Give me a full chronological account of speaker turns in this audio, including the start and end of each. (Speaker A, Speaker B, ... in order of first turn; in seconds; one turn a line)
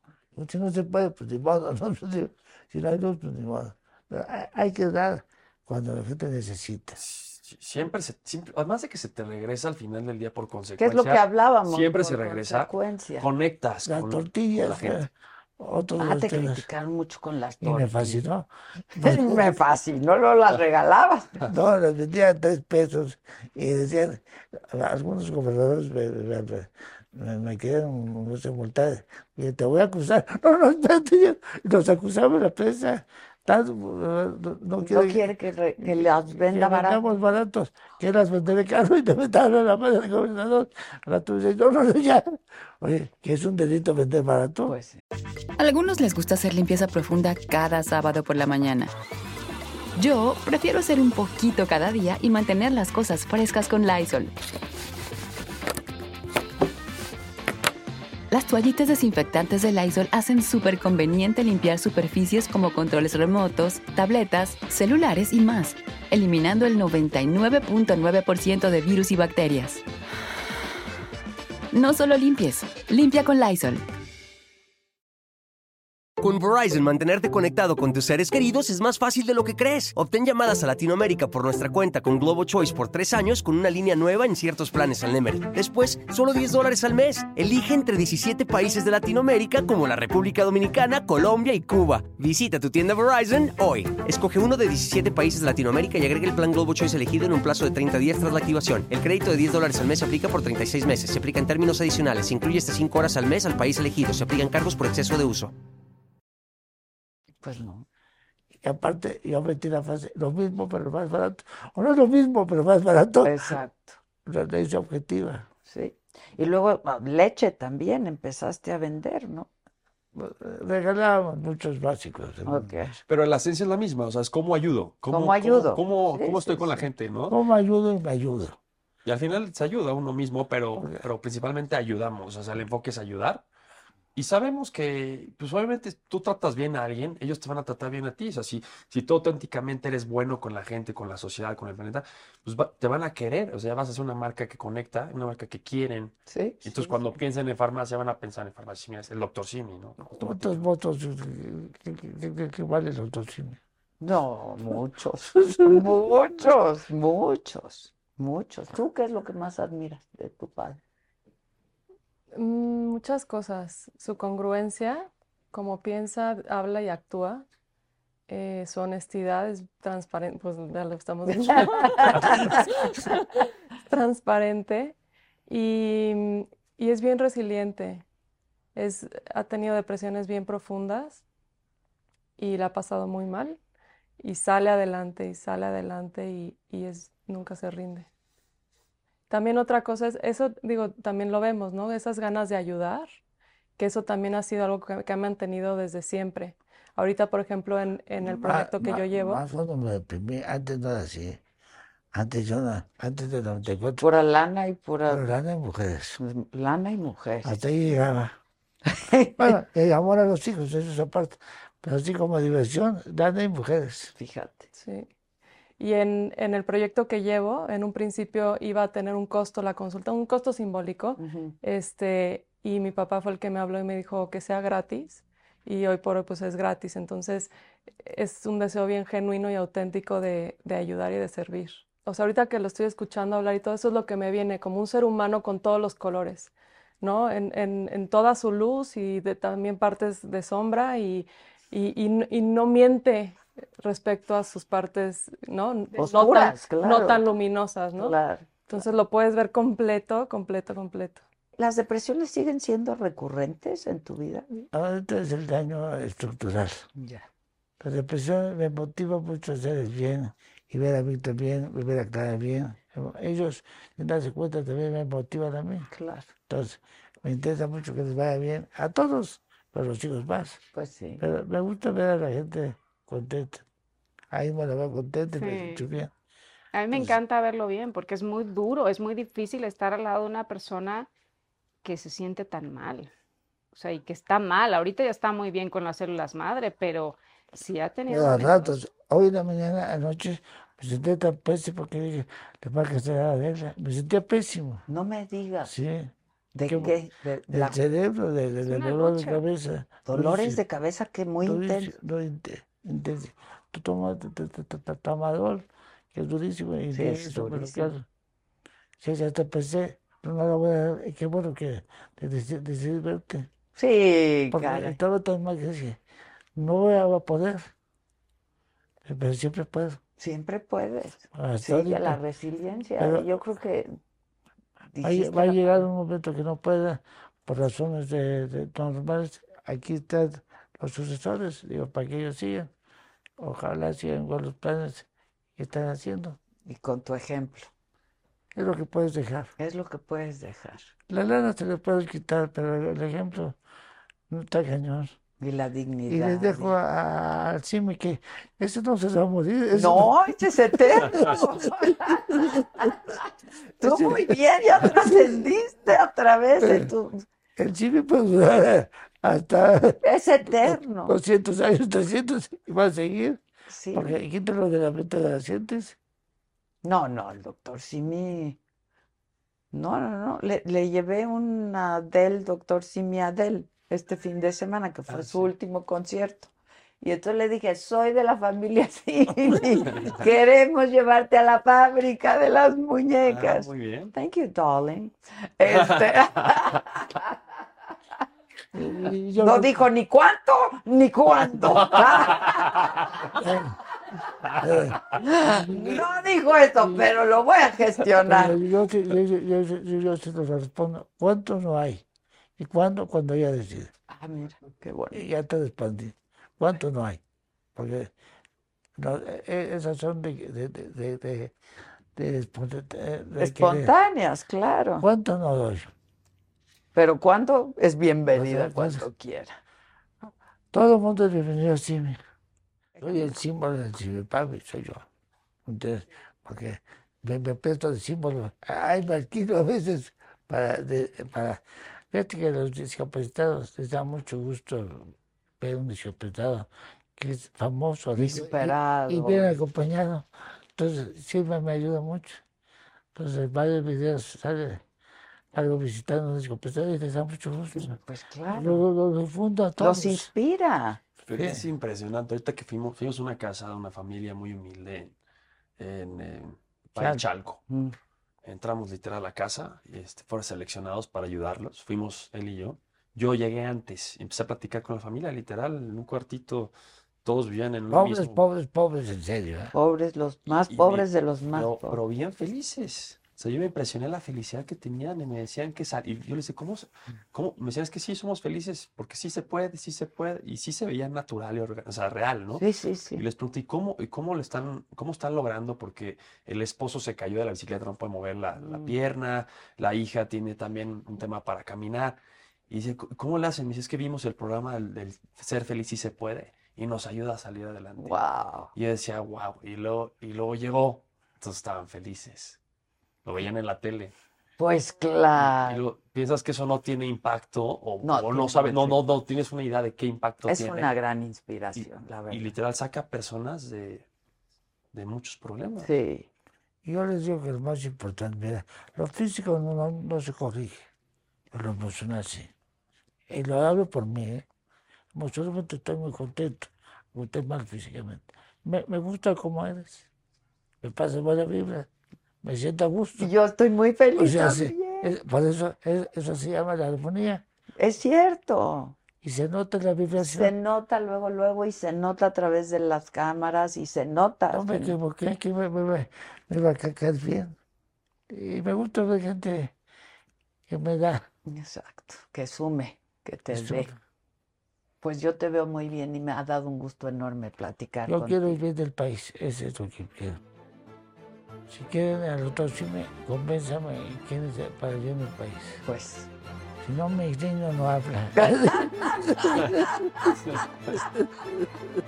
Speaker A: 0.3-7.0
Speaker B: 7.0-15.1
Speaker C: 10.8-13.3
Speaker A: 13.8-16.6
Speaker C: 16.0-18.2
Speaker A: 17.6-19.5
Speaker C: 19.0-21.5
Speaker A: 21.5-44.8
Speaker C: 34.8-37.0
Speaker C: 44.7-45.0
Speaker D: 45.6-48.9
Speaker D: 50.0-54.3
Speaker D: 58.3-69.8
Speaker D: 71.7-73.8
Speaker E: 76.2-105.5
Speaker C: 107.4-107.8
Speaker A: 108.5-113.5
Speaker C: 113.2-114.0
Speaker A: 114.2-115.5
Speaker C: 115.7-119.5
Speaker A: 120.1-122.7
Speaker C: 122.5-123.0
Speaker B: 123.1-127.3
Speaker C: 125.1-126.9
Speaker A: 127.3-128.6
Speaker B: 129.0-133.4
Speaker B: 134.1-150.6
Speaker C: 146.3-147.0
Speaker A: 150.2-153.6
Speaker C: 154.0-160.8
Speaker F: 162.3-167.4
Speaker F: 168.3-174.9
Speaker C: 171.4-172.4
Speaker F: 175.5-178.0
Speaker F: 178.7-181.2
Speaker F: 182.4-183.6
Speaker F: 184.2-188.1
Speaker F: 189.3-193.1
Speaker F: 193.8-199.4
Speaker A: 198.2-201.4
Speaker A: 202.1-204.0
Speaker C: 204.0-205.3
Speaker A: 205.1-206.2
Speaker C: 206.2-207.5
Speaker A: 207.4-208.4
Speaker C: 208.8-209.5
Speaker A: 209.4-214.1
Speaker C: 214.2-214.7
Speaker F: 214.8-215.1
Speaker F: 215.8-227.5
Speaker C: 221.2-221.5
Speaker F: 228.0-248.2
Speaker C: 246.0-247.2
Speaker C: 248.0-248.8
Speaker F: 248.7-251.2
Speaker C: 251.6-254.7
Speaker A: 254.7-256.9
Speaker C: 256.9-257.2
Speaker A: 257.8-265.9
Speaker C: 265.9-266.3
Speaker A: 266.5-270.6
Speaker C: 270.7-271.2
Speaker A: 271.2-273.6
Speaker A: 274.3-276.1
Speaker G: 275.4-275.8
Speaker G: 276.7-281.1
Speaker A: 276.9-277.2
Speaker G: 281.8-283.1
Speaker G: 283.7-288.8
Speaker A: 288.1-294.8
Speaker C: 294.9-295.7
Speaker A: 295.6-296.1
Speaker C: 296.5-297.8
Speaker A: 296.6-297.0
Speaker A: 297.5-300.6
Speaker G: 298.6-299.4
Speaker C: 300.1-301.9
Speaker A: 301.4-308.1
Speaker C: 306.9-307.9
Speaker A: 309.0-313.5
Speaker C: 313.8-314.9
Speaker A: 314.5-316.0
Speaker A: 316.6-317.7
Speaker A: 319.0-320.0
Speaker C: 320.2-323.9
Speaker A: 321.3-322.2
Speaker A: 323.0-323.2
Speaker C: 324.9-325.8
Speaker A: 325.0-332.7
Speaker A: 333.4-336.4
Speaker C: 336.6-337.7
Speaker A: 338.5-339.5
Speaker C: 339.6-340.9
Speaker A: 341.1-343.6
Speaker A: 344.3-345.2
Speaker C: 345.4-346.7
Speaker A: 346.1-352.9
Speaker C: 349.7-353.2
Speaker C: 353.8-357.2
Speaker A: 353.8-355.3
Speaker A: 356.6-356.9
Speaker A: 357.6-363.4
Speaker C: 360.0-361.1
Speaker C: 363.7-364.1
Speaker A: 363.9-365.9
Speaker C: 366.8-368.6
Speaker C: 369.7-387.4
Speaker B: 375.1-375.5
Speaker B: 379.9-380.2
Speaker B: 383.2-384.1
Speaker A: 388.7-389.8
Speaker C: 389.4-392.9
Speaker B: 392.0-393.1
Speaker A: 393.4-393.7
Speaker B: 394.5-394.9
Speaker A: 394.6-395.0
Speaker C: 395.1-398.6
Speaker A: 398.2-402.0
Speaker A: 402.6-403.9
Speaker C: 404.1-405.2
Speaker A: 405.1-407.2
Speaker A: 407.7-408.1
Speaker A: 409.0-411.5
Speaker A: 412.1-413.9
Speaker C: 413.4-415.1
Speaker A: 415.0-415.9
Speaker C: 416.9-419.5
Speaker A: 418.3-419.1
Speaker A: 420.7-422.2
Speaker A: 423.0-425.1
Speaker A: 425.6-431.6
Speaker A: 432.1-442.4
Speaker C: 438.1-439.5
Speaker A: 443.1-444.8
Speaker A: 445.5-448.0
Speaker C: 447.8-448.8
Speaker A: 448.5-450.3
Speaker C: 449.8-451.0
Speaker B: 451.2-455.1
Speaker A: 451.4-451.6
Speaker B: 455.8-457.6
Speaker A: 457.0-457.2
Speaker C: 457.7-457.9
Speaker B: 458.4-466.7
Speaker B: 467.2-468.4
Speaker A: 467.9-469.7
Speaker C: 469.7-472.0
Speaker B: 470.7-482.6
Speaker C: 482.6-483.2
Speaker B: 483.1-498.2
Speaker C: 498.0-498.7
Speaker B: 498.7-502.6
Speaker B: 503.2-504.1
Speaker C: 504.6-505.8
Speaker B: 505.4-510.9
Speaker C: 508.0-509.0
Speaker C: 510.4-512.5
Speaker B: 511.8-514.0
Speaker B: 514.9-515.9
Speaker C: 515.8-516.3
Speaker A: 516.8-520.8
Speaker A: 521.5-522.5
Speaker A: 523.3-524.5
Speaker A: 525.1-530.0
Speaker A: 530.8-531.9
Speaker A: 532.4-533.3
Speaker C: 533.2-535.1
Speaker A: 534.1-537.4
Speaker C: 537.8-539.0
Speaker A: 539.2-540.5
Speaker C: 540.2-545.0
Speaker A: 544.5-547.5
Speaker A: 548.3-549.7
Speaker A: 550.7-551.3
Speaker C: 551.5-553.9
Speaker A: 553.5-554.0
Speaker C: 555.0-558.6
Speaker A: 558.0-560.4
Speaker A: 561.7-565.8
Speaker C: 565.8-566.3
Speaker A: 566.8-569.8
Speaker C: 568.4-569.9